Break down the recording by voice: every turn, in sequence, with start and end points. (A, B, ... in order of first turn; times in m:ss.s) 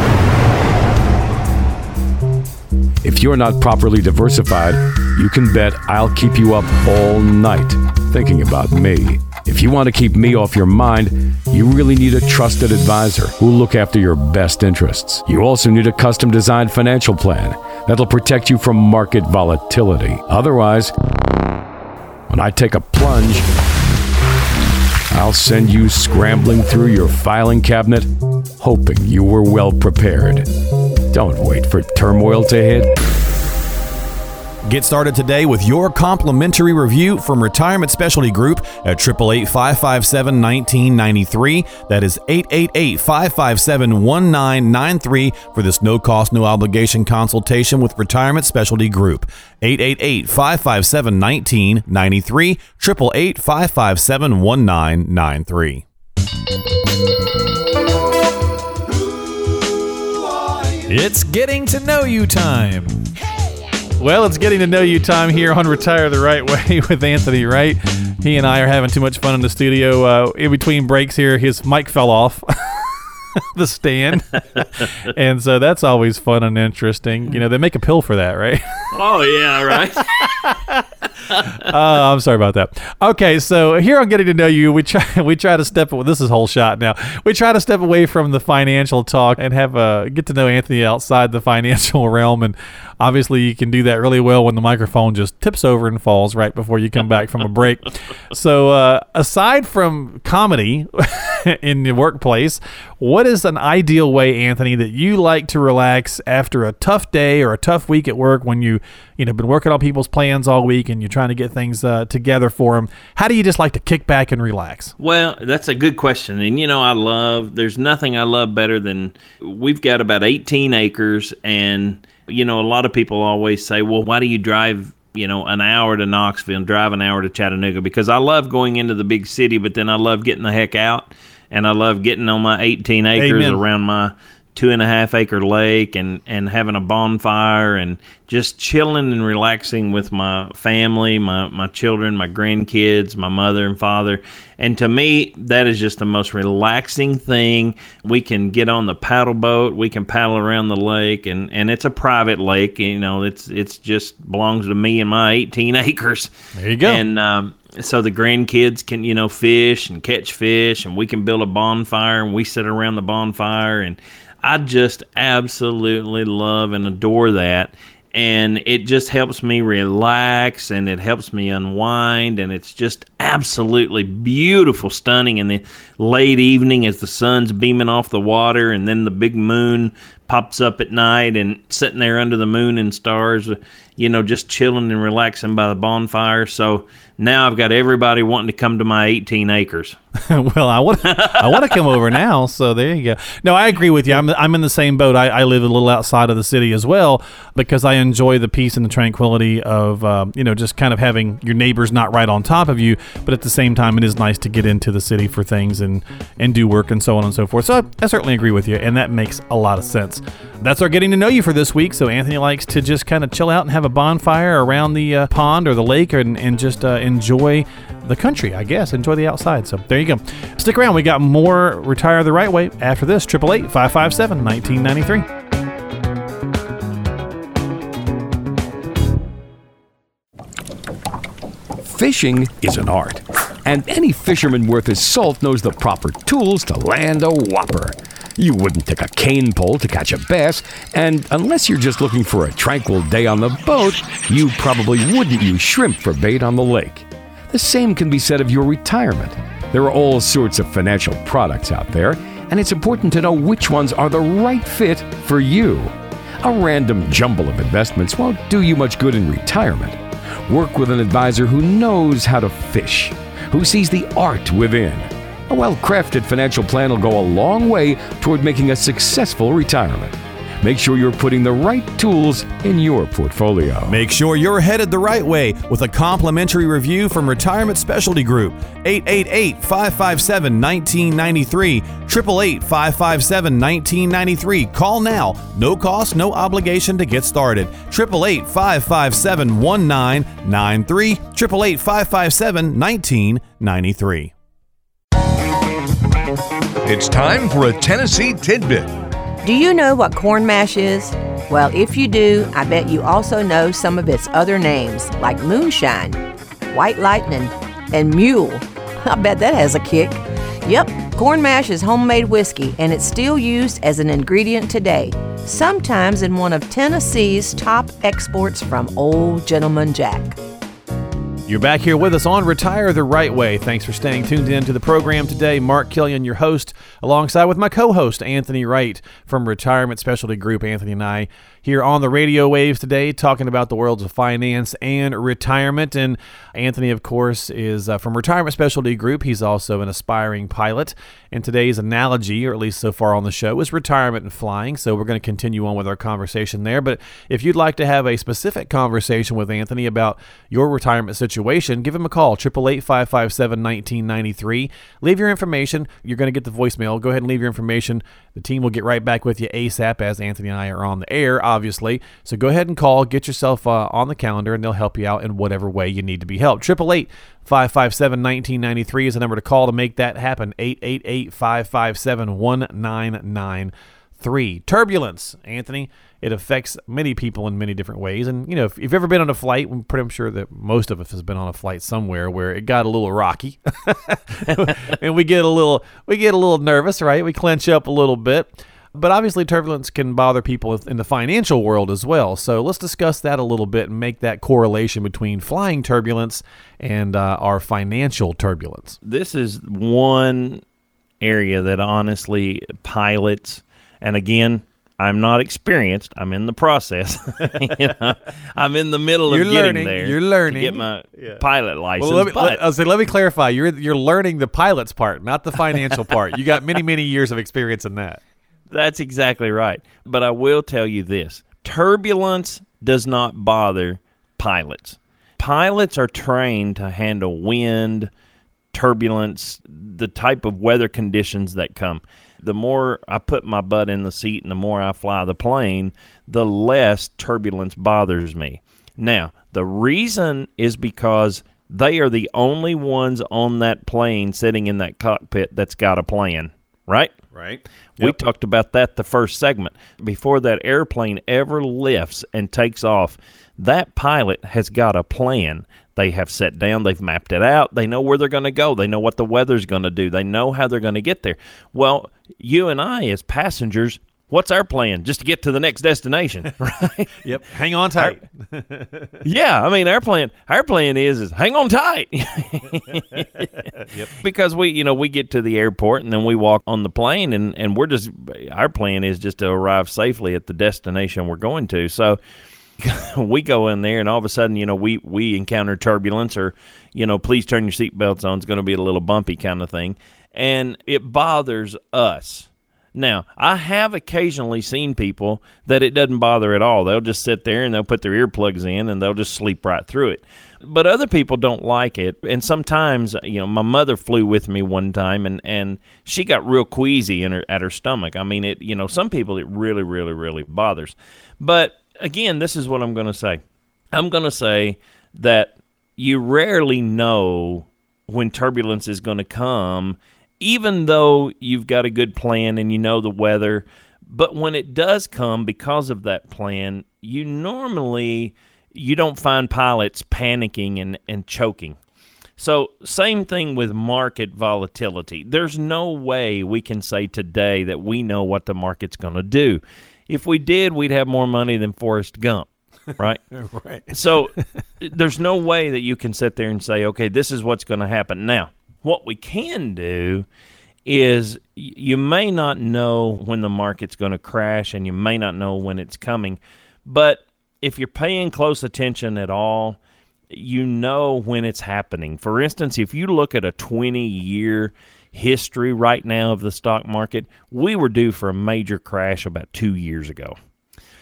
0:03.0-0:20.9 A
0:22.3-0:23.4 A
0:25.1-0:28.1 A
0:28.6-0:30.5 A
0:31.1-0:32.9 A
0:34.7-0:55.8 B
1:00.9-1:03.0 B
1:04.0-1:19.0 B
1:18.9-1:20.5 C
1:19.9-1:55.0 B
1:21.3-1:21.6 C
1:55.0-2:36.3 C
2:13.2-2:13.6 B
2:36.6-2:37.0 B
2:36.8-3:10.0 C
3:10.2-3:45.3 B
3:11.1-3:11.9 C
3:51.8-4:34.0 A
4:33.9-4:54.3 B
4:56.8-4:58.9 D
4:59.4-5:20.4 E
5:21.5-6:39.0 B
6:39.0-6:40.6 C
6:41.2-6:52.7 C
6:49.3-6:51.4 B
6:52.0-6:58.2 B
6:58.7-7:08.1 C
7:08.7-7:27.1 C
7:27.3-7:28.2 B
7:28.0-7:47.2 C
7:47.2-7:49.2 B
7:49.2-8:02.2 C
8:02.8-8:33.4 C
8:33.9-8:51.8 C
8:52.4-9:03.2 C
9:03.3-9:04.4 B
9:03.9-9:10.3 C
9:10.8-9:19.8 C
9:20.3-9:30.4 C